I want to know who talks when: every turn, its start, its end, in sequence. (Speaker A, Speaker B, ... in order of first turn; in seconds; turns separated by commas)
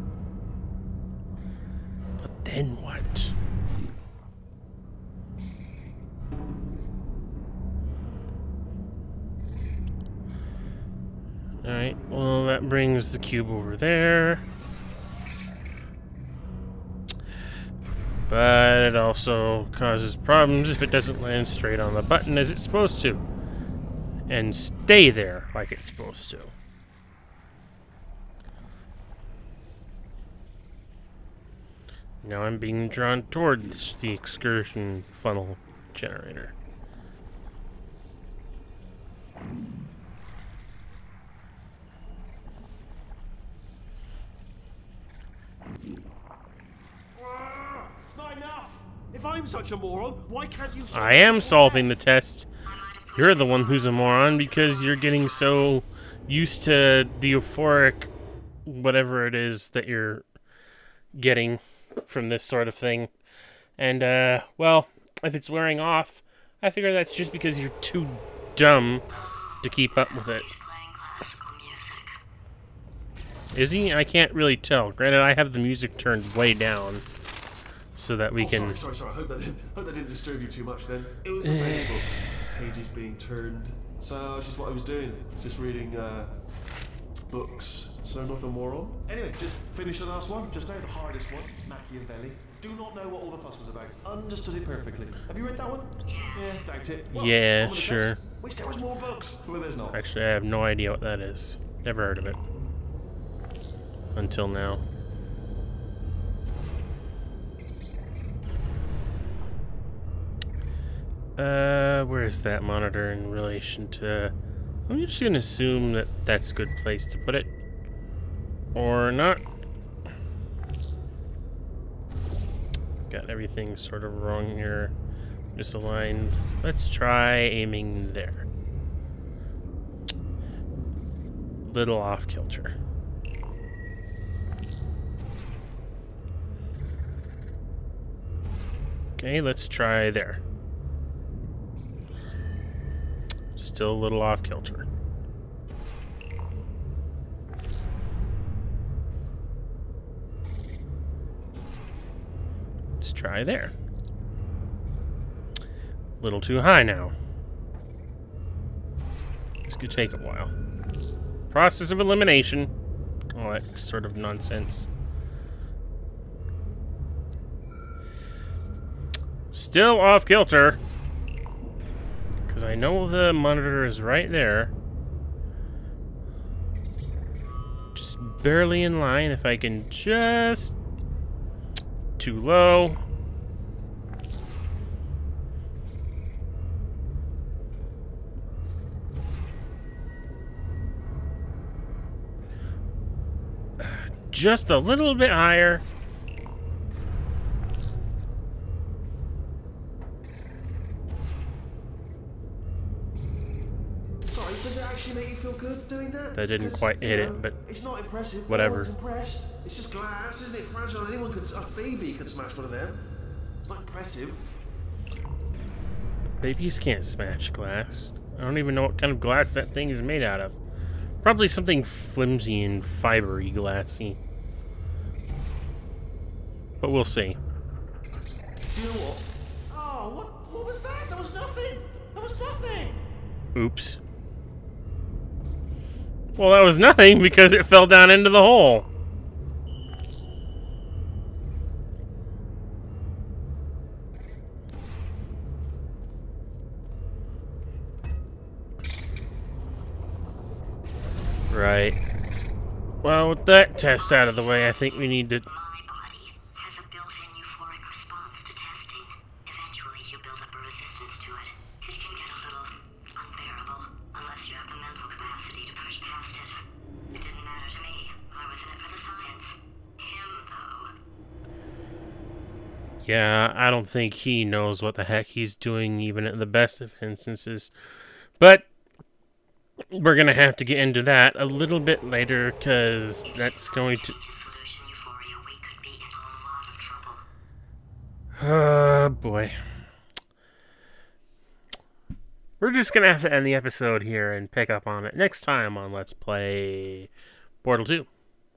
Speaker A: 2.2-3.3, Speaker A: 11.6-14.4, Speaker A: 18.3-23.3, Speaker A: 24.3-26.5, Speaker A: 32.2-36.5, Speaker B: 47.1-51.9, Speaker A: 50.9-52.5, Speaker C: 52.7-55.7, Speaker A: 53.1-58.1, Speaker A: 58.6-60.2, Speaker A: 61.1-63.1, Speaker A: 63.8-69.0, Speaker C: 69.3-72.2, Speaker A: 69.6-70.5, Speaker A: 73.5-77.0, Speaker A: 78.0-78.8, Speaker B: 78.4-86.3, Speaker A: 81.4-82.1, Speaker B: 87.3-100.0, Speaker C: 96.1-96.6, Speaker A: 97.1-98.2, Speaker A: 99.9-102.4, Speaker A: 104.1-104.8, Speaker A: 111.4-114.3, Speaker A: 114.9-117.5, Speaker A: 118.7-119.4, Speaker A: 123.1-124.9, Speaker A: 125.5-128.5, Speaker A: 131.6-132.8, Speaker A: 139.2-140.4, Speaker A: 143.6-144.9, Speaker A: 153.0-153.7, Speaker A: 156.2-157.1, Speaker A: 159.7-160.5, Speaker A: 161.5-162.7, Speaker A: 163.3-164.9, Speaker A: 169.5-170.8, Speaker A: 172.5-174.7, Speaker A: 177.9-180.8, Speaker A: 182.2-183.0, Speaker A: 193.8-195.8, Speaker B: 204.3-213.0, Speaker A: 206.4-207.6, Speaker A: 208.5-208.9, Speaker B: 213.6-214.4, Speaker A: 216.4-220.6, Speaker A: 221.2-224.2, Speaker A: 226.8-227.4, Speaker B: 228.7-233.0, Speaker A: 233.6-234.0, Speaker A: 236.4-238.9, Speaker A: 251.5-252.0, Speaker A: 253.0-255.4, Speaker C: 253.8-266.6, Speaker C: 267.1-270.9, Speaker A: 273.1-277.7, Speaker A: 278.4-278.7, Speaker A: 279.9-284.1, Speaker C: 283.3-287.2, Speaker A: 288.4-289.6, Speaker A: 292.6-297.1, Speaker A: 297.6-298.1